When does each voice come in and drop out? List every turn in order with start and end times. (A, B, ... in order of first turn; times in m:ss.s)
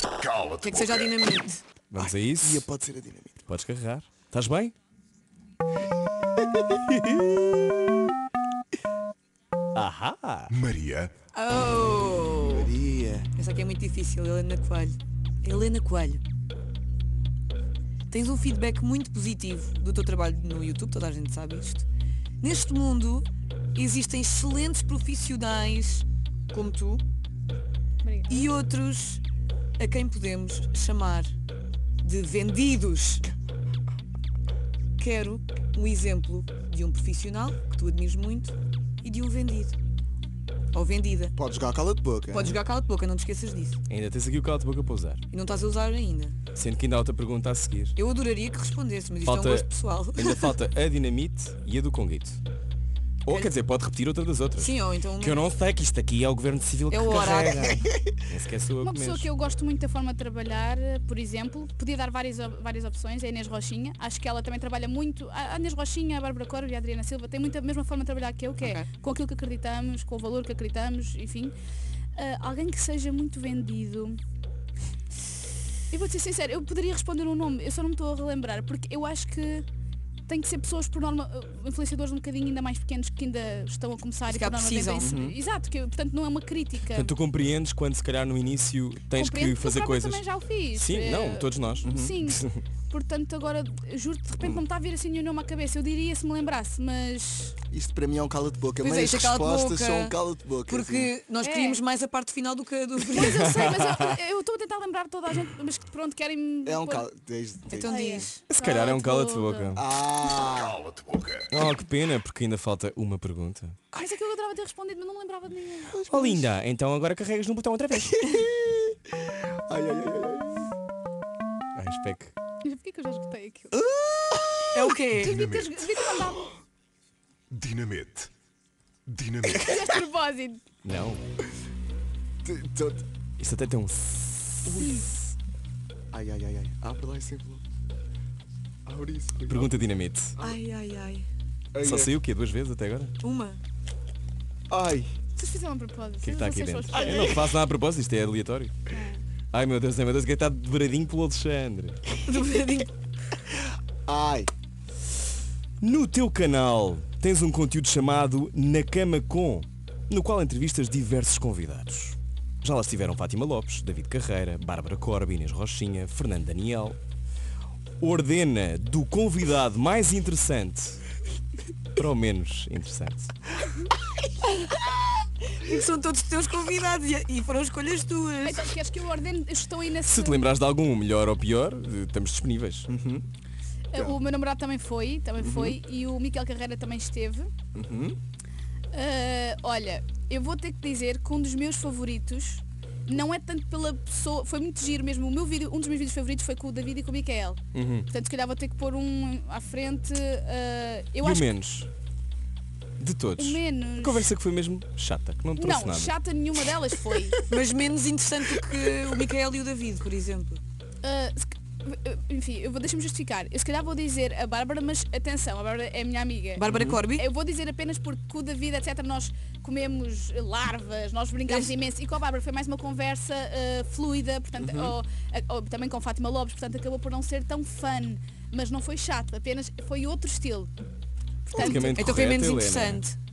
0:00.2-0:01.0 A
0:00.6-0:01.6 B
0:01.9-0:02.7 C
0:02.0-0:03.5 D
0:03.5-0:04.7 C
0:06.9-0:07.8 C
0:09.7-0:10.5 C
0:10.5-0:11.1 A
0:11.3-0:12.7 B
0:12.4-0:13.3 D
0:13.4-0:16.2 B
0:18.1-0:21.9 B
0:22.4-0:27.0 B
0:28.0-0:28.5 E
0:28.3-0:29.2 B
0:29.8-0:31.3 B
0:32.0-0:33.2 B
0:35.0-0:39.8 B
0:40.7-0:41.3 B
0:41.4-0:42.6 D
0:42.3-0:43.8 B
0:43.9-0:45.2 C
0:45.3-0:46.4 B
0:46.5-0:47.9 C
0:48.0-0:50.6 B
0:49.2-0:52.4 C
0:53.2-0:59.3 C
0:53.3-0:53.5 B
0:54.6-0:55.4 B
0:56.9-0:57.8 B
0:58.8-1:11.5 E
1:08.6-1:08.9 B
1:12.2-1:14.2 E
1:15.9-1:19.6 E
1:20.3-1:27.1 E
1:24.3-1:25.1 B
1:25.0-1:25.4 D
1:26.9-1:32.6 C
1:29.1-1:37.6 E
1:31.8-1:32.2 D
1:37.7-1:41.1 D
1:38.8-1:40.2 B
1:40.7-1:43.6 B
1:41.4-1:41.8 E
1:43.1-1:47.1 E
1:43.4-1:44.0 C
1:46.6-1:48.2 D
1:47.7-1:48.4 B
1:47.8-1:49.8 E
1:48.5-1:49.8 C
1:49.7-1:50.9 D
1:50.8-1:51.4 A
1:51.5-1:53.8 C
1:53.9-1:56.0 E
1:55.9-1:56.5 D
1:56.1-1:58.4 C
1:58.2-1:59.0 D
1:59.7-2:00.7 D
2:01.8-2:02.3 C
2:02.6-2:03.7 E
2:03.7-2:04.8 D
2:04.7-2:05.4 B
2:05.2-2:06.5 E
2:05.2-2:05.8 A
2:07.5-2:08.3 A
2:09.1-2:09.7 A
2:09.5-2:10.6 E
2:10.8-2:11.2 C
2:12.4-2:13.0 D
2:13.4-2:15.3 C
2:14.7-2:15.1 E
2:16.1-2:17.6 D
2:18.8-2:19.8 D
2:19.5-2:20.3 C
2:20.4-2:21.3 B
2:21.7-2:22.1 D
2:21.8-2:23.1 C
2:23.2-2:23.6 B
2:24.7-2:25.1 D
2:25.4-2:27.4 E
2:26.2-2:28.8 C
2:27.0-2:27.4 D
2:28.9-2:29.2 E
2:29.5-2:32.1 C
2:32.2-2:32.9 B
2:34.0-2:34.5 D
2:35.8-2:47.0 C
2:48.0-2:51.0 C
2:52.0-2:53.3 C
2:55.6-2:58.7 B
2:58.4-3:00.5 E
3:00.1-3:02.9 C
3:02.9-3:03.2 D
3:03.9-3:07.5 E
3:05.4-3:05.8 D
3:07.7-3:08.2 D
3:08.9-3:21.5 E
3:17.7-3:18.1 C
3:21.2-3:21.9 C
3:23.0-3:26.1 C
3:23.4-3:24.3 E
3:25.6-3:27.4 E
3:27.5-3:30.6 B
3:31.0-3:50.7 E
3:36.6-3:37.3 B
3:36.7-3:37.0 C
3:41.5-3:41.7 B
3:44.6-3:44.9 D
3:51.5-3:52.1 E
3:51.5-3:53.0 C
3:51.6-3:51.8 D
3:51.8-3:53.1 B